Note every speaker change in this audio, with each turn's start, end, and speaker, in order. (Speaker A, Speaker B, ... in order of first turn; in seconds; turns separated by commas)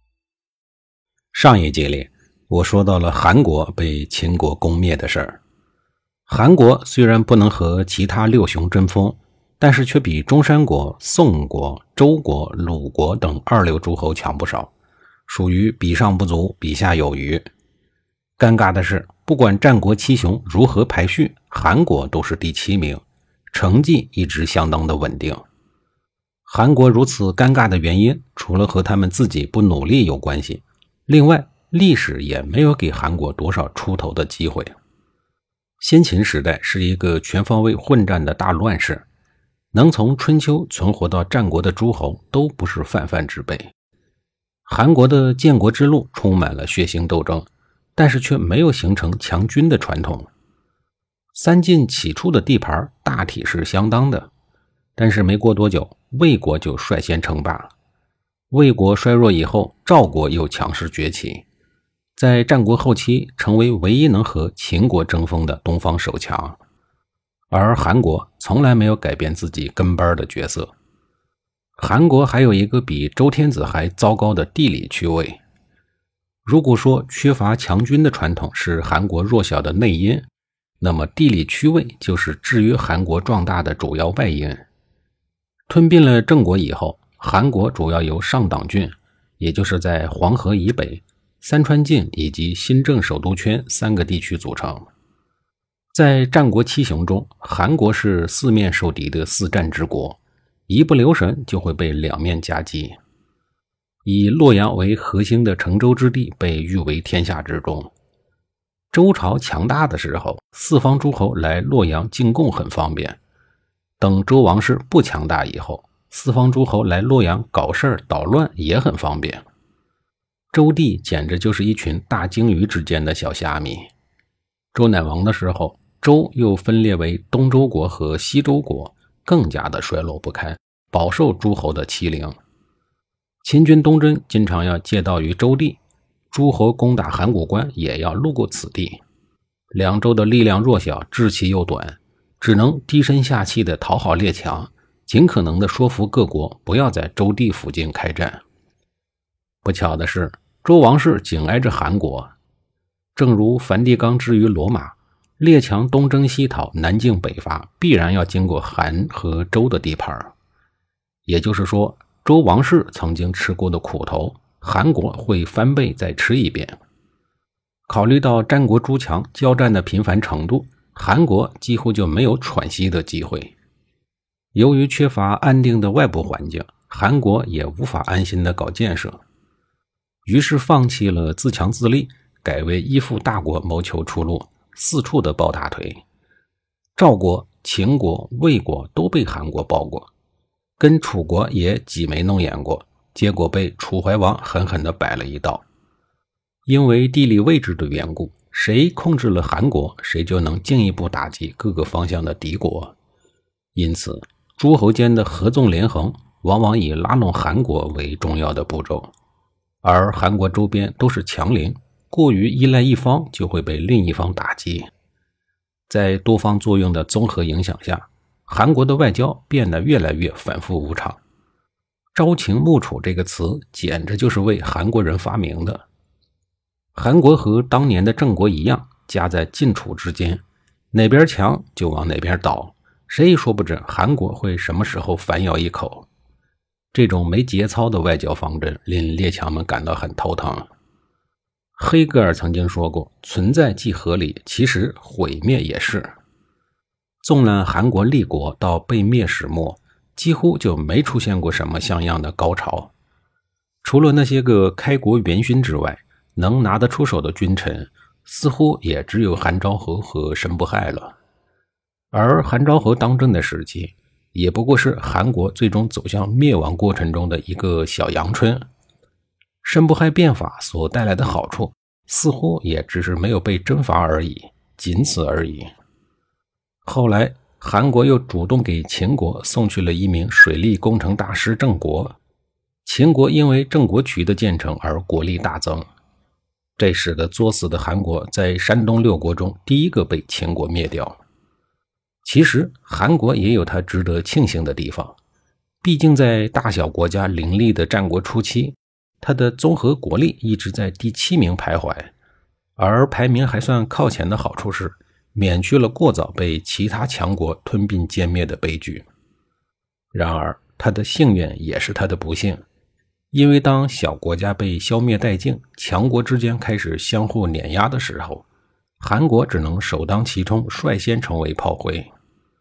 Speaker A: 1.3-5.4, Speaker A: 6.3-14.7, Speaker A: 15.3-17.4, Speaker A: 18.4-25.4, Speaker A: 26.5-34.8, Speaker A: 35.8-39.1, Speaker A: 39.7-43.7, Speaker A: 44.7-50.3, Speaker A: 51.3-54.3, Speaker A: 55.0-57.7, Speaker A: 58.5-61.5, Speaker A: 62.2-66.6, Speaker A: 67.5-70.7, Speaker A: 71.8-75.4, Speaker A: 76.5-80.3, Speaker A: 80.8-84.7, Speaker A: 85.7-94.9, Speaker A: 95.9-103.0, Speaker A: 104.0-107.9, Speaker A: 108.9-113.2, Speaker A: 114.0-119.4, Speaker A: 120.5-123.9, Speaker A: 124.7-132.4, Speaker A: 133.4-135.8, Speaker A: 136.3-139.0, Speaker A: 139.7-148.4, Speaker A: 149.6-152.3, Speaker A: 153.2-160.3, Speaker A: 161.3-166.8, Speaker A: 167.9-173.6, Speaker A: 174.5-179.2, Speaker A: 180.2-186.0, Speaker A: 187.0-190.1, Speaker A: 190.8-195.7, Speaker A: 196.7-203.0, Speaker A: 203.8-209.1, Speaker A: 209.8-214.9, Speaker A: 215.9-221.2, Speaker A: 222.2-225.8, Speaker A: 226.9-236.1, Speaker A: 236.9-240.7, Speaker A: 241.8-246.1, Speaker A: 247.2-252.9, Speaker A: 253.8-261.2, Speaker A: 262.1-268.7, Speaker A: 269.6-275.7, Speaker A: 276.9-282.2, Speaker A: 282.9-285.9, Speaker A: 286.8-291.2, Speaker A: 292.2-295.2, Speaker A: 295.8-302.1, Speaker A: 302.8-309.1, Speaker A: 310.1-312.6, Speaker A: 313.3-318.5, Speaker A: 319.0-322.1